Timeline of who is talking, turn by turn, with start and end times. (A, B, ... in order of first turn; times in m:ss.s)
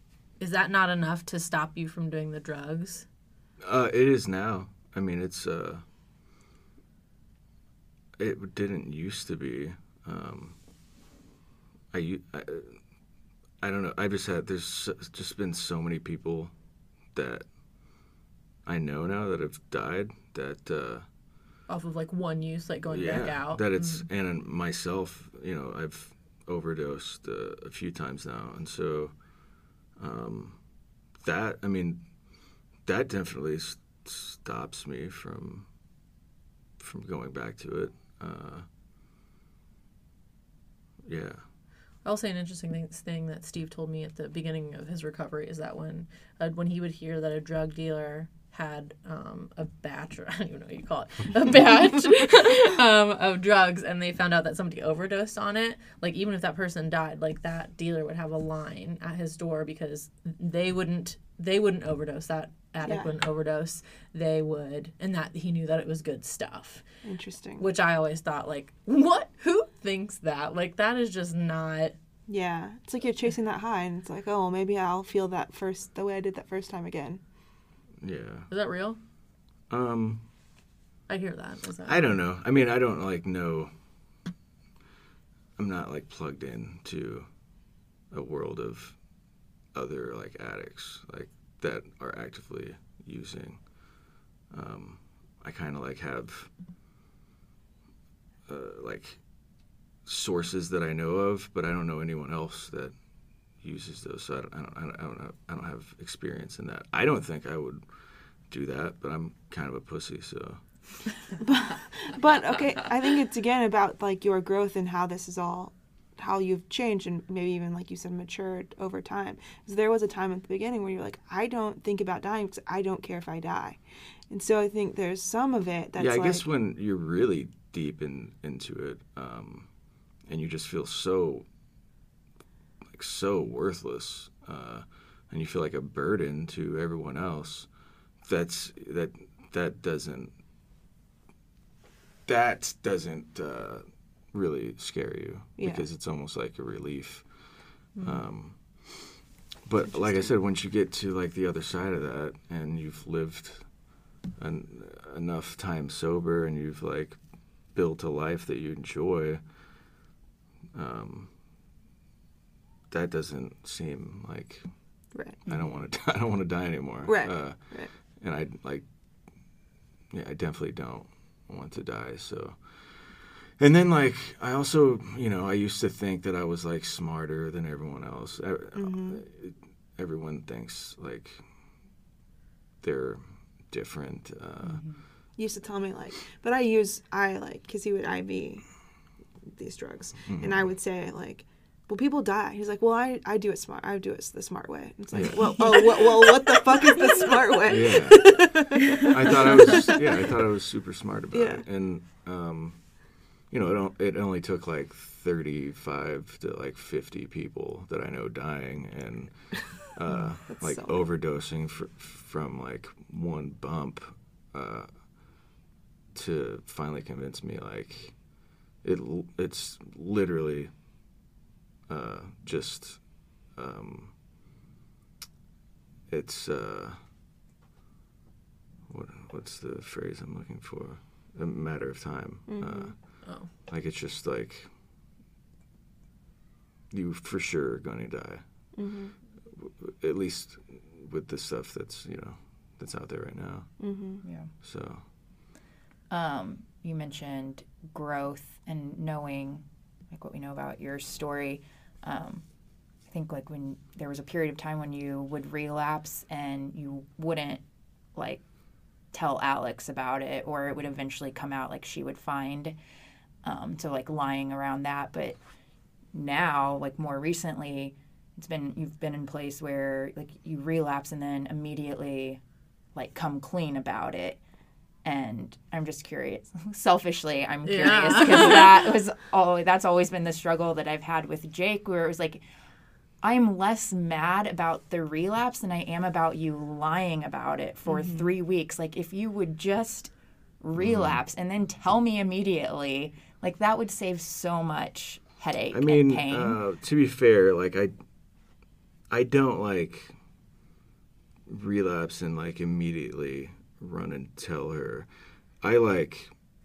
0:00.4-0:03.1 A
0:03.6-0:05.8 B
0:08.2-0:10.6 B
0:11.9-0:12.8 B
0:13.6-0:16.5 B
0:17.1-0:17.4 B
0:18.7-0:21.1 B
0:21.7-0:24.1 A
0:22.9-0:29.3 B
0:30.0-0:30.6 B
0:31.2-0:32.1 B
0:32.8-0:35.7 B
0:36.8-0:38.7 B
0:41.0-0:41.4 B
0:42.0-1:06.8 A
1:02.8-1:03.1 C
1:07.0-1:07.6 C
1:07.6-1:12.0 A
1:12.3-1:17.2 C
1:18.0-1:18.5 B
1:18.5-1:19.0 A
1:19.7-1:20.2 B
1:21.1-1:22.0 A
1:21.8-1:23.7 B
1:25.6-1:27.3 B
1:28.1-1:29.0 B
1:29.7-1:33.9 B
1:34.5-1:36.5 B
1:38.5-1:39.2 B
1:40.0-1:43.0 B
1:43.6-1:47.8 B
1:48.5-1:50.6 B
1:51.4-2:03.8 C
2:04.3-2:06.4 C
2:06.0-2:09.7 B
2:10.3-2:11.5 B
2:12.9-2:17.7 B
2:18.2-2:20.4 B
2:22.3-2:27.3 B
2:25.6-2:25.8 C
2:28.0-2:28.2 A
2:28.0-2:33.8 B
2:29.9-2:30.3 C
2:34.4-2:37.2 B
2:37.7-2:39.4 B
2:40.7-2:41.3 B
2:42.9-2:44.7 B
2:45.1-2:45.4 C
2:45.5-2:48.9 B
2:47.0-2:47.9 C
2:50.1-3:01.5 B
2:58.7-2:59.2 C
3:02.8-3:04.8 B
3:04.6-3:05.0 D
3:05.4-3:08.6 C
3:09.5-3:20.3 C
3:10.3-3:10.7 B
3:15.1-3:15.5 B
3:17.6-3:22.9 B
3:21.3-3:21.6 C
3:23.5-3:34.9 B
3:30.5-3:30.9 C
3:36.1-3:38.2 B
3:38.8-3:40.7 B
3:41.9-3:44.2 B
3:46.1-3:47.0 B
3:48.9-3:54.7 B
3:52.5-3:52.9 C
3:53.2-3:53.5 A
3:56.9-3:58.4 B
3:58.8-3:59.2 C
3:59.6-4:03.7 B
4:03.8-4:04.2 C
4:04.2-4:04.5 D
4:04.6-4:05.0 B
4:06.1-4:12.4 D
4:13.1-4:17.6 D
4:18.2-4:18.4 D
4:19.1-4:22.8 D
4:23.4-4:25.4 D
4:26.1-4:32.4 D
4:33.0-4:34.4 D
4:35.0-4:42.4 D
4:37.6-4:38.6 A
4:43.2-4:56.6 D
4:47.9-4:48.3 C
4:50.8-4:51.2 B
4:55.7-4:57.9 B
4:59.1-5:00.2 B
5:01.5-5:05.1 B
5:05.6-5:06.3 B